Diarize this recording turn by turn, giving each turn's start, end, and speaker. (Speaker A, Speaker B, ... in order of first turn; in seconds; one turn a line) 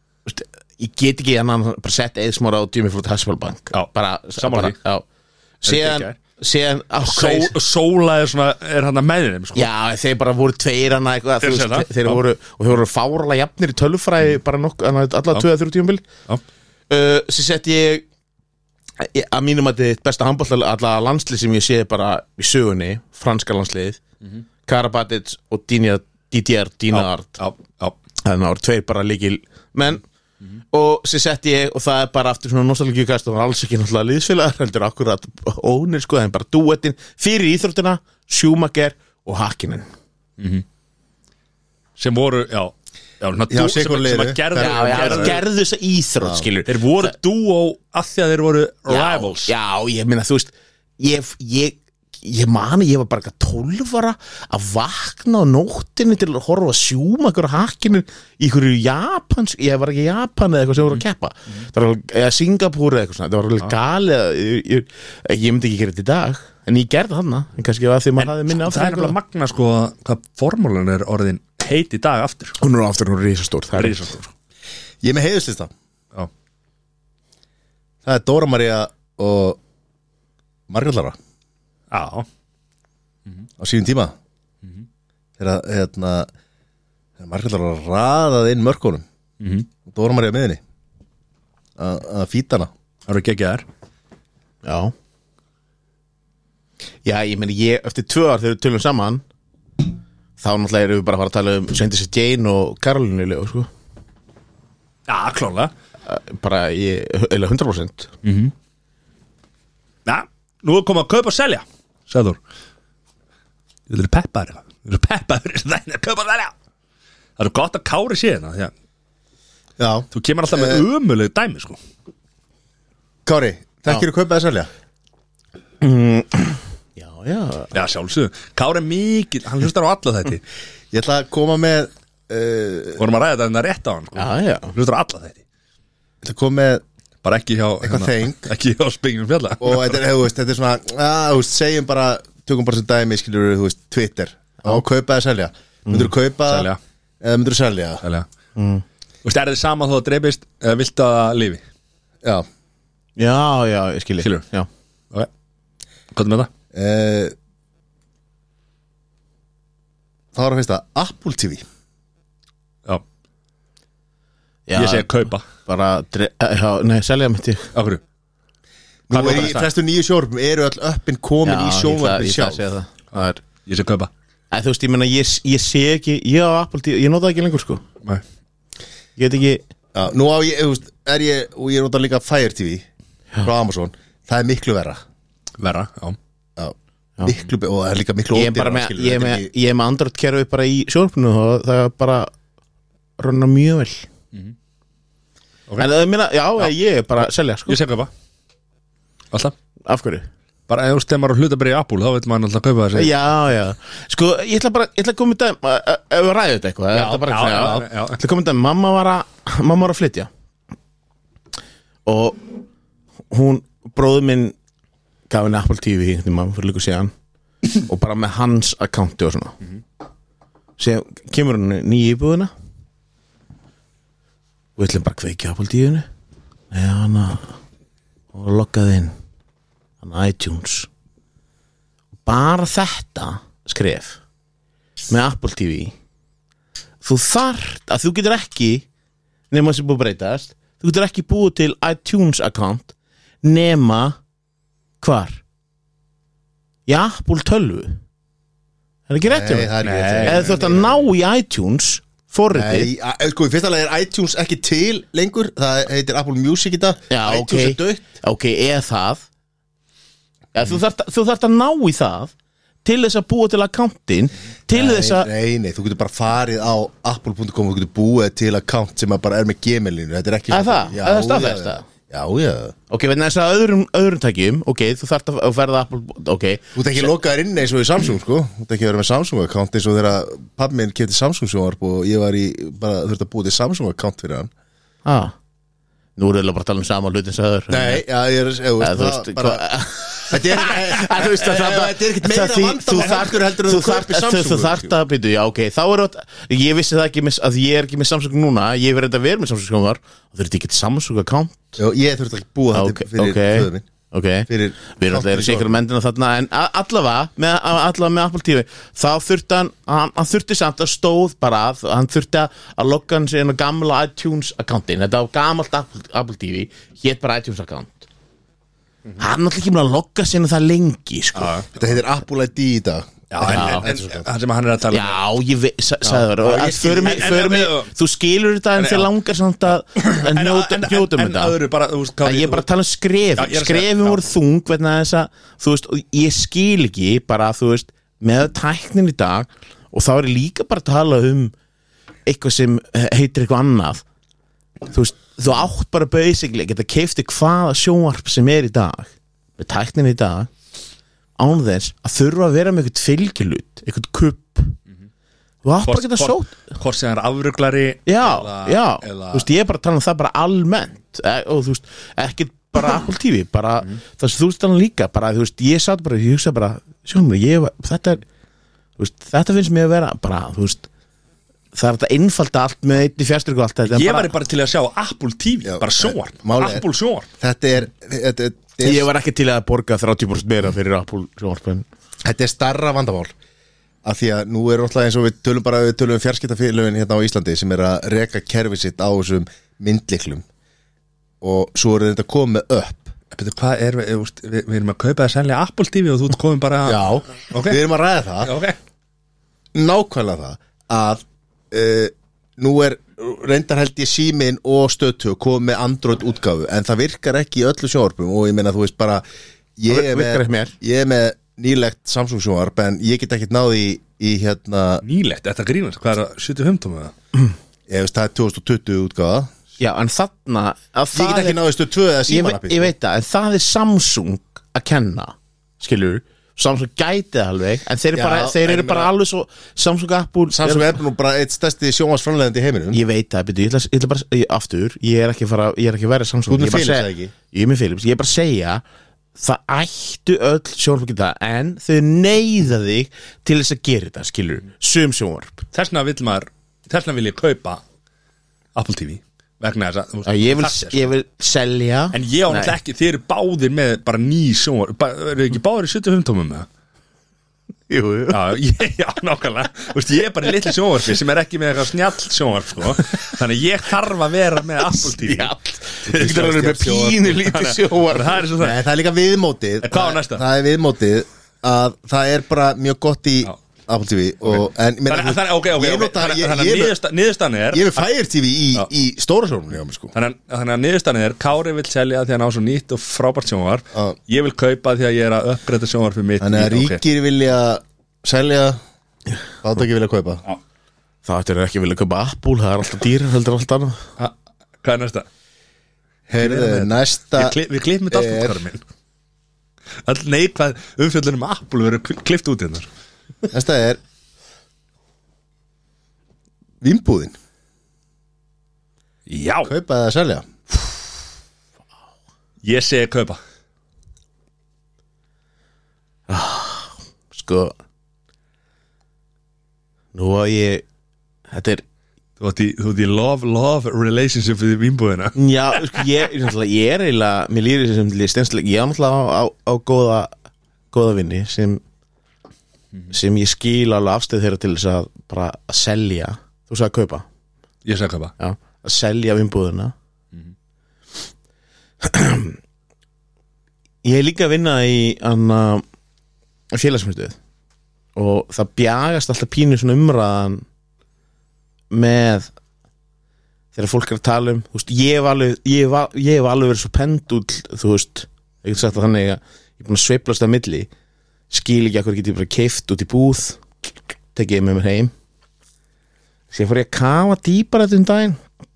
Speaker A: 0.3-5.0
Speaker B: 3.7-4.8
Speaker A: 5.6-7.5
Speaker B: 5.7-6.2
Speaker B: 7.0-9.7
Speaker A: 9.6-16.0
Speaker B: 11.4-12.2
Speaker A: 16.9-18.1
Speaker A: 19.0-24.0
Speaker A: 24.7-27.4
Speaker B: 26.9-27.9
Speaker A: 28.2-30.0
Speaker A: 30.7-39.9
Speaker B: 40.4-40.6
Speaker B: 42.0-45.4
Speaker C: 43.5-45.4
Speaker A: 44.5-47.1
Speaker C: 46.2-46.5
Speaker B: 46.7-49.5
Speaker A: 48.9-69.2
Speaker B: 68.2-72.6
Speaker A: 72.6-74.1
Speaker B: 73.8-74.3
Speaker C: 75.0-75.7
Speaker C: 78.0-79.6
Speaker C: 80.7-81.2
Speaker B: 81.9-82.3
Speaker C: 83.6-84.1
Speaker C: 85.4-86.3
Speaker C: 87.2-89.0
Speaker B: 89.4-89.7
Speaker C: 89.9-90.6
Speaker C: 91.8-92.7
Speaker B: 93.1-93.7
Speaker A: 94.6-94.9
Speaker A: 97.0-99.2
Speaker A: 100.4-103.7
Speaker B: 105.1-105.7
Speaker A: 106.1-108.1
Speaker B: 108.2-108.5
Speaker B: 110.1-112.4
Speaker B: 113.9-116.5
Speaker B: 117.4-118.7
Speaker C: 119.8-120.8
Speaker B: 120.1-121.8
Speaker C: 123.3-124.7
Speaker A: 125.8-127.7
Speaker B: 127.7-130.4
Speaker C: 130.9-133.0
Speaker B: 133.0-135.4
Speaker A: 134.2-134.7
Speaker C: 136.2-136.8
Speaker B: 137.2-140.0
Speaker C: 137.8-138.5
Speaker C: 139.6-146.7
Speaker B: 146.5-146.8
Speaker C: 147.2-148.0
Speaker A: 148.6-148.8
Speaker B: 149.2-151.6
Speaker A: 153.2-154.7
Speaker B: 156.1-156.5
Speaker C: 156.7-157.3
Speaker C: 160.3-161.7
Speaker A: 164.7-167.7
Speaker B: 164.7-165.4
Speaker B: 167.7-168.0
Speaker C: 169.1-172.6
Speaker B: 169.1-169.7
Speaker A: 171.4-173.4
Speaker B: 173.7-174.1
Speaker A: 174.5-177.8
Speaker A: 179.2-179.6
Speaker C: 179.9-182.8
Speaker C: 183.4-185.0
Speaker B: 185.6-186.2
Speaker C: 186.6-189.5
Speaker A: 188.3-192.3
Speaker A: 193.2-194.1
Speaker A: 195.8-197.8
Speaker B: 197.7-198.1
Speaker A: 199.9-200.3
Speaker B: 200.7-203.1
Speaker A: 202.9-210.3
Speaker B: 206.9-208.2
Speaker A: 212.1-212.5
Speaker A: 213.3-214.6
Speaker A: 215.3-217.1
Speaker A: 217.8-219.6
Speaker A: 220.8-222.5
Speaker A: 224.8-226.1
Speaker A: 226.7-227.6
Speaker A: 228.3-229.1
Speaker A: 230.0-230.9
Speaker A: 232.2-234.2
Speaker A: 235.1-235.9
Speaker A: 237.0-238.8
Speaker A: 239.5-244.2
Speaker A: 245.0-245.4
Speaker A: 246.9-248.0
Speaker A: 249.1-252.9
Speaker C: 249.2-250.9
Speaker B: 249.8-250.9
Speaker C: 252.5-258.0
Speaker A: 257.1-259.2
Speaker A: 260.5-262.3
Speaker A: 262.9-265.3
Speaker C: 264.7-272.8
Speaker A: 270.5-271.9
Speaker A: 272.9-277.1
Speaker C: 276.8-284.5
Speaker A: 285.1-285.4
Speaker A: 286.2-288.0
Speaker C: 287.7-294.9
Speaker A: 288.8-301.8
Speaker C: 301.8-303.9
Speaker A: 302.7-318.1
Speaker C: 304.5-305.8
Speaker A: 319.2-321.6
Speaker B: 321.4-321.7
Speaker C: 321.8-324.3
Speaker B: 323.3-325.2
Speaker A: 323.4-323.9
Speaker A: 324.9-331.6
Speaker C: 326.1-327.4
Speaker B: 326.6-327.9
Speaker B: 328.8-329.1
Speaker B: 329.9-332.6
Speaker A: 332.2-341.5
Speaker B: 333.4-334.2
Speaker A: 342.3-344.0
Speaker A: 344.9-350.5
Speaker A: 351.4-354.8
Speaker A: 355.6-356.5
Speaker B: 355.9-359.5
Speaker A: 358.1-368.2
Speaker A: 369.0-370.9
Speaker A: 371.7-374.3
Speaker B: 373.9-377.3
Speaker C: 375.7-376.8
Speaker C: 377.4-379.1
Speaker A: 378.8-381.9
Speaker C: 382.2-383.3
Speaker C: 384.0-390.4
Speaker C: 391.4-393.1
Speaker B: 393.3-397.8
Speaker C: 396.9-398.5
Speaker B: 398.4-398.8
Speaker C: 399.8-409.2
Speaker C: 409.8-415.0
Speaker A: 409.9-410.7
Speaker B: 415.0-417.1
Speaker C: 417.9-419.5
Speaker A: 419.8-421.6
Speaker C: 421.1-422.9
Speaker A: 422.3-431.0
Speaker C: 428.1-429.1
Speaker C: 430.5-433.0
Speaker A: 432.9-438.8
Speaker C: 436.5-437.3
Speaker A: 439.4-445.6
Speaker B: 445.7-447.8
Speaker B: 448.8-451.1
Speaker A: 450.3-452.8
Speaker B: 452.1-456.7
Speaker A: 457.9-458.4
Speaker B: 458.3-465.5
Speaker A: 464.9-468.5
Speaker B: 466.1-468.8
Speaker C: 466.1-467.1
Speaker C: 468.6-477.0
Speaker B: 469.8-470.4
Speaker B: 474.5-478.1
Speaker C: 477.7-480.1
Speaker B: 480.1-487.0
Speaker C: 486.4-488.8
Speaker C: 489.6-490.4
Speaker A: 491.2-494.0
Speaker B: 494.2-495.3
Speaker C: 496.3-497.6
Speaker B: 496.4-498.8
Speaker C: 498.1-498.6
Speaker B: 500.1-502.9
Speaker C: 503.5-504.0
Speaker C: 506.8-507.4
Speaker B: 509.3-509.7
Speaker C: 509.6-510.5
Speaker B: 512.6-513.4
Speaker A: 516.3-517.8
Speaker A: 520.1-520.8
Speaker A: 521.5-521.8
Speaker B: 522.4-525.4
Speaker A: 525.4-530.3
Speaker A: 530.9-531.8
Speaker A: 533.1-537.3
Speaker B: 537.9-538.3
Speaker A: 538.4-539.9
Speaker A: 542.0-542.6
Speaker A: 544.0-545.9
Speaker A: 546.7-547.4
Speaker A: 548.1-550.6
Speaker A: 551.9-552.5
Speaker A: 553.7-560.9
Speaker A: 561.5-563.6
Speaker A: 564.4-565.1
Speaker A: 566.5-568.4